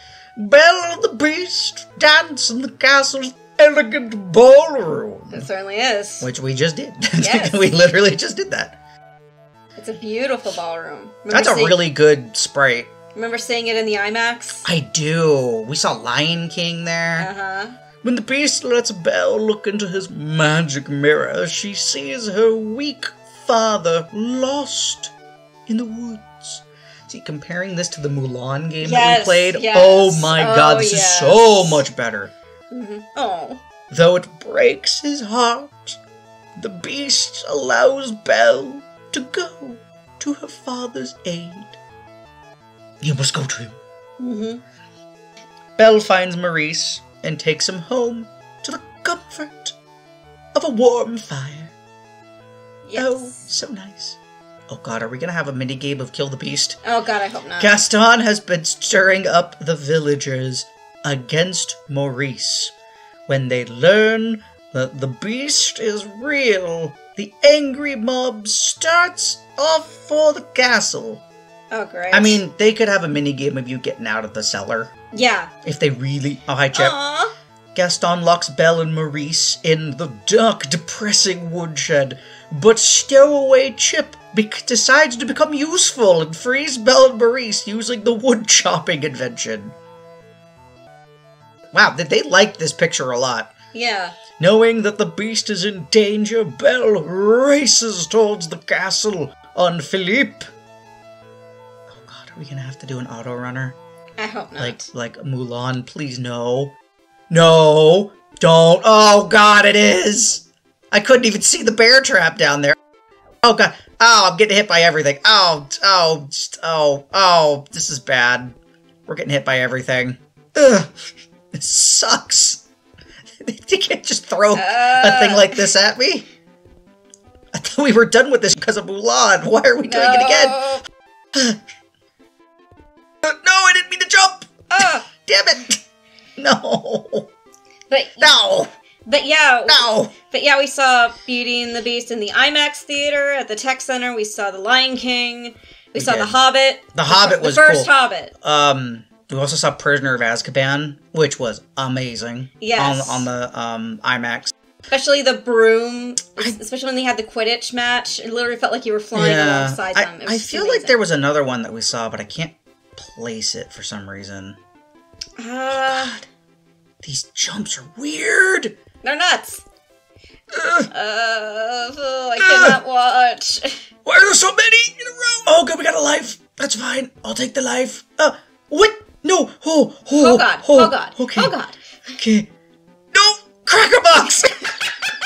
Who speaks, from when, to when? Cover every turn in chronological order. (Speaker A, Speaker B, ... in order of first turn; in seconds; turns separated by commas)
Speaker A: 0.4-5.5, Speaker B: 5.3-6.3, Speaker A: 6.2-8.8, Speaker B: 7.2-7.7, Speaker B: 9.8-11.8, Speaker A: 11.3-12.9, Speaker B: 13.2-14.7, Speaker A: 14.6-17.3, Speaker B: 17.2-17.8, Speaker A: 18.0-25.1, Speaker A: 25.7-32.3, Speaker B: 28.8-31.8, Speaker B: 32.7-33.6, Speaker A: 33.9-36.0, Speaker A: 36.6-41.8, Speaker A: 43.0-43.8, Speaker B: 44.2-44.6, Speaker A: 45.8-49.8, Speaker A: 50.5-51.7, Speaker B: 52.8-53.4, Speaker A: 53.0-54.2, Speaker A: 54.7-56.8, Speaker B: 56.8-57.8, Speaker A: 57.6-62.7, Speaker A: 63.3-71.2, Speaker B: 71.7-72.4, Speaker A: 72.1-74.9, Speaker B: 75.1-75.5, Speaker A: 75.7-77.0, Speaker B: 76.7-77.3, Speaker A: 77.8-89.8, Speaker A: 91.7-93.5, Speaker B: 93.7-94.2, Speaker A: 94.4-100.5, Speaker A: 101.9-103.8, Speaker B: 104.2-104.9, Speaker A: 104.6-106.7, Speaker A: 107.3-112.8, Speaker A: 113.4-118.6, Speaker A: 119.1-120.9, Speaker A: 121.5-122.6, Speaker A: 123.4-126.3, Speaker B: 124.5-125.6, Speaker A: 127.5-130.8, Speaker B: 129.9-130.8, Speaker A: 131.3-131.6, Speaker A: 133.2-135.8, Speaker B: 134.7-135.1, Speaker A: 136.4-137.3, Speaker B: 137.9-138.4, Speaker A: 138.2-138.7, Speaker B: 139.1-148.3, Speaker A: 139.7-140.1, Speaker A: 146.0-146.4, Speaker A: 146.9-154.5, Speaker B: 152.6-153.3, Speaker B: 154.9-161.0, Speaker A: 159.2-164.6, Speaker B: 165.4-166.2, Speaker A: 165.7-166.3, Speaker A: 167.0-168.8, Speaker B: 169.0-169.7, Speaker A: 170.5-170.9, Speaker B: 170.9-173.8, Speaker A: 172.4-172.8, Speaker A: 174.1-181.5, Speaker B: 180.2-181.8, Speaker A: 182.2-182.5, Speaker A: 183.1-184.8